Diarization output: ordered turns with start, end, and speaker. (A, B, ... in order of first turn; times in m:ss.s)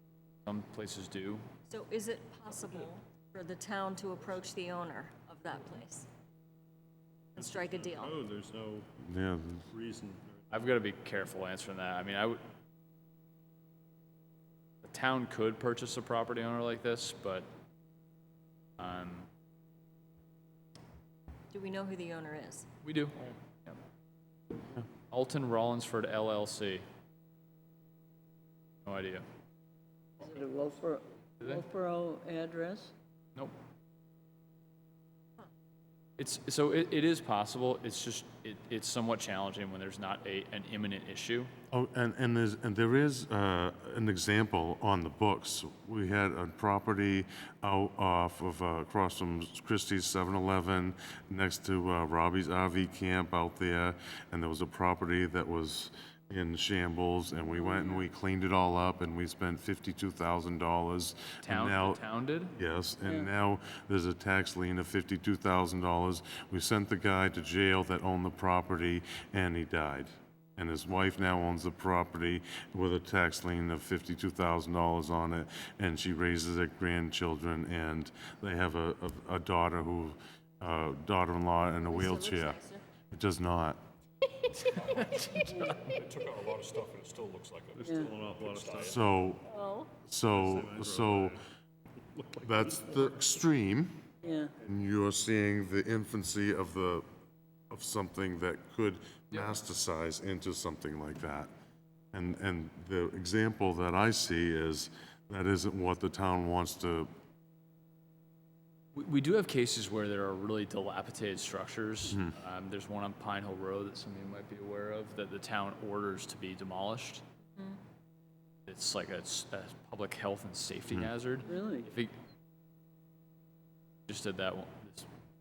0:00.4-0:01.4 A
0:01.7-0:06.1 B
0:07.4-0:08.2 B
0:07.4-0:08.9 C
0:09.0-0:09.6 D
0:09.7-0:10.4 C
0:10.5-0:12.4 A
0:14.8-0:17.5 A
0:18.8-0:19.3 A
0:21.5-0:22.7 B
0:22.8-0:23.8 A
0:25.1-0:26.8 A
0:28.8-0:29.2 A
0:30.2-0:32.9 E
0:36.2-0:41.5 A
0:41.7-1:02.0 D
1:01.4-1:02.5 A
1:02.6-1:23.8 D
1:03.0-1:03.3 E
1:21.9-1:22.8 B
1:24.4-1:24.8 B
1:24.8-1:25.1 F
1:25.0-1:25.7 A
1:25.7-1:28.9 F
1:27.8-1:29.0 C
1:27.8-1:28.1 E
1:28.8-1:29.5 D
1:29.4-1:29.9 B
1:30.0-1:31.4 D
1:30.3-1:31.4 C
1:32.1-1:33.1 C
1:32.4-1:34.1 D
1:34.2-1:34.5 E
1:34.6-1:37.0 D
1:37.7-1:41.5 D
1:39.3-1:39.6 A
1:42.1-1:47.1 D
1:48.9-1:57.2 A
1:52.1-1:52.3 D
1:57.5-1:57.8 B
1:58.7-2:02.1 A
2:01.4-2:01.9 E
2:04.1-2:05.1 A